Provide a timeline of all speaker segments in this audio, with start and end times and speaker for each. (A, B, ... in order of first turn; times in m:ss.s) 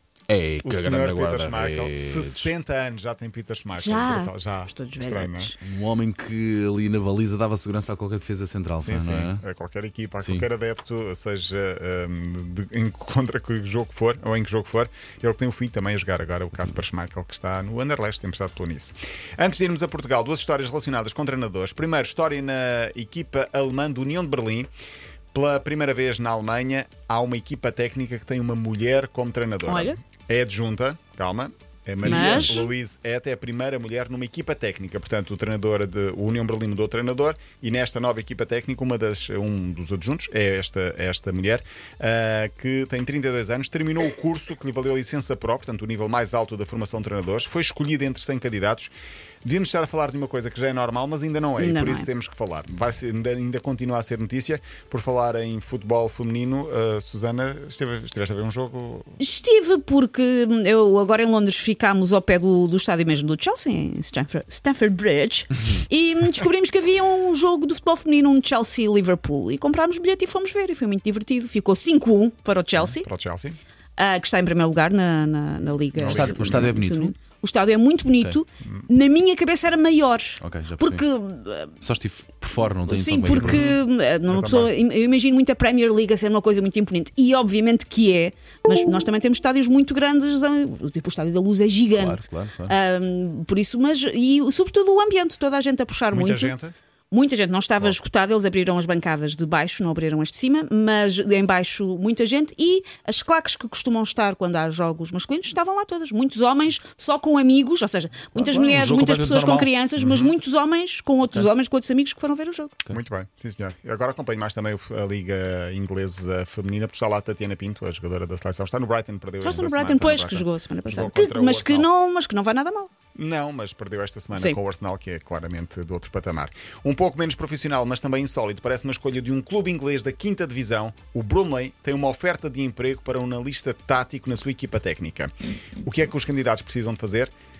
0:00.3-0:02.5 A
0:00.6-0:05.5 B
0:03.7-0:05.6 C
0:05.6-0:09.4 A
0:08.8-0:24.7 B
0:10.2-0:10.4 A
0:25.3-0:48.9 B
0:29.6-0:30.0 C
0:31.9-0:32.6 A
0:32.0-0:32.7 C
0:49.4-0:59.2 B
0:51.6-0:52.1 C
0:59.2-1:13.1 C
1:12.8-1:13.6 B
1:14.0-1:21.8 C
1:15.9-1:16.8 B
1:16.0-1:17.1 A
1:20.4-1:21.0 A
1:21.8-1:23.8 A
1:22.9-1:36.6 C
1:23.4-1:24.7 B
1:31.9-1:32.7 A
1:36.1-1:36.7 B
1:37.1-1:52.7 C
1:48.3-1:49.7 A
1:50.0-1:50.3 B
1:52.9-2:01.9 B
1:59.4-2:02.9 C
2:03.1-2:15.3 B
2:15.8-2:17.3 B